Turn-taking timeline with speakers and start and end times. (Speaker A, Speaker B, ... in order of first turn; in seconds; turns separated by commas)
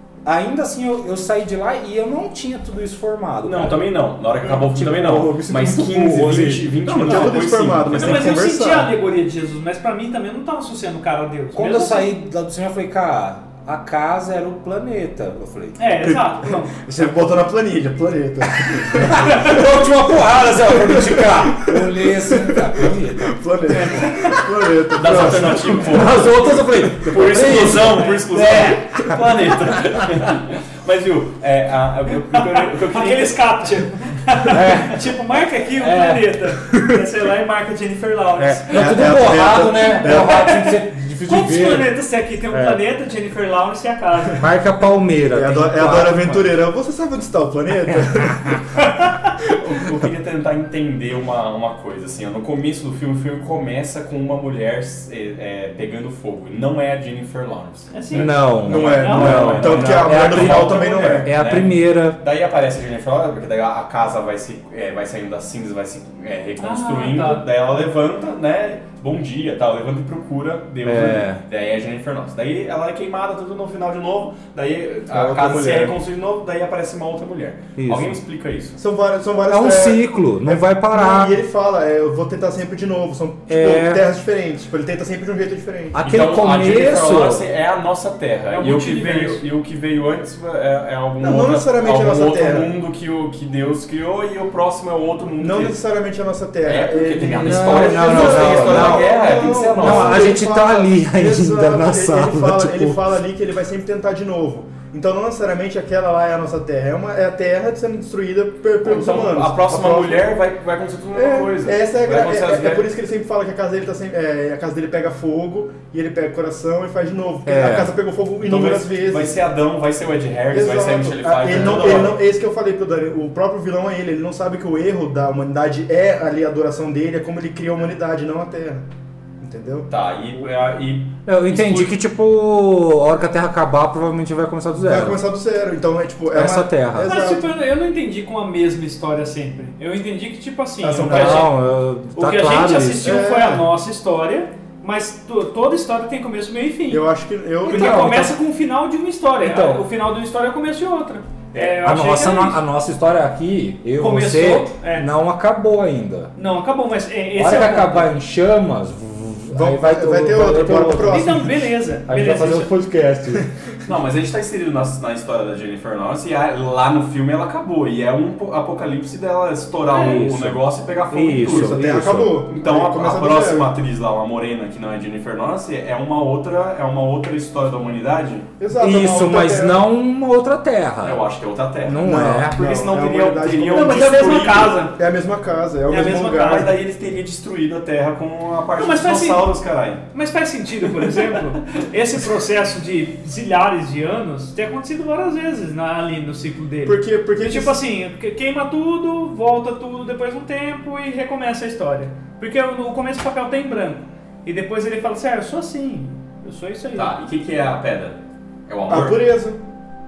Speaker A: 0.2-3.9, Speaker B: 3.4-8.4, Speaker A: 4.4-7.4, Speaker C: 6.9-8.9, Speaker D: 7.9-12.1, Speaker A: 11.5-15.8, Speaker D: 15.8-16.7, Speaker C: 16.0-19.9, Speaker A: 18.6-23.4, Speaker C: 20.5-26.2, Speaker D: 23.7-24.4, Speaker B: 24.9-33.4, Speaker A: 25.3-29.3, Speaker D: 32.3-44.4, Speaker A: 34.5-35.1, Speaker A: 35.8-36.2, Speaker A: 38.4-41.9, Speaker C: 38.7-40.5, Speaker A: 42.5-42.8, Speaker A: 44.4-46.5, Speaker C: 45.3-48.8, Speaker D: 48.8-49.3, Speaker B: 49.5-78.8, Speaker D: 57.9-58.3, Speaker A: 58.1-62.2, Speaker C: 58.6-61.3, Speaker D: 58.9-59.7, Speaker D: 66.6-67.5, Speaker A: 70.8-71.4, Speaker C: 75.1-76.0, Speaker A: 77.8-78.2, Speaker C: 78.8-86.0, Speaker A: 79.5-81.4, Speaker A: 83.5-84.0, Speaker A: 85.9-87.5, Speaker B: 86.0-95.8, Speaker D: 88.5-89.4, Speaker C: 91.2-92.7, Speaker C: 95.4-110.3, Speaker B: 96.6-100.3, Speaker A: 97.4-103.1, Speaker B: 108.8-112.9, Speaker C: 111.1-119.4, Speaker A: 117.5-117.9, Speaker B: 118.4-122.2, Speaker C: 120.5-128.9, Speaker C: 129.4-130.5, Speaker B: 129.9-131.9, Speaker A: 131.2-135.2, Speaker C: 134.8-137.5, Speaker A: 136.3-137.1, Speaker D: 137.0-141.5, Speaker C: 140.8-141.5, Speaker A: 141.0-143.2, Speaker D: 142.1-147.0, Speaker C: 143.0-143.7, Speaker C: 146.9-148.2, Speaker A: 147.6-148.4, Speaker D: 147.7-152.6, Speaker A: 149.4-149.8, Speaker A: 151.5-156.3, Speaker D: 154.0-155.1, Speaker D: 156.3-158.1, Speaker A: 157.3-161.5, Speaker C: 159.5-161.6, Speaker D: 161.1-162.7, Speaker A: 162.1-163.5, Speaker B: 163.8-171.8, Speaker A: 169.9-172.4, Speaker D: 169.9-170.3, Speaker C: 171.4-173.7, Speaker B: 172.5-178.5, Speaker C: 178.6-179.8, Speaker A: 178.7-181.2, Speaker B: 181.0-184.8, Speaker A: 181.8-182.6, Speaker C: 182.0-184.3, Speaker D: 183.7-184.9, Speaker C: 184.9-186.7, Speaker D: 185.9-186.7, Speaker B: 186.4-190.1, Speaker D: 188.8-189.5, Speaker D: 190.1-207.1, Speaker B: 190.8-191.8, Speaker C: 196.8-197.8, Speaker B: 206.9-208.2, Speaker B: 208.7-209.2, Speaker C: 208.9-209.6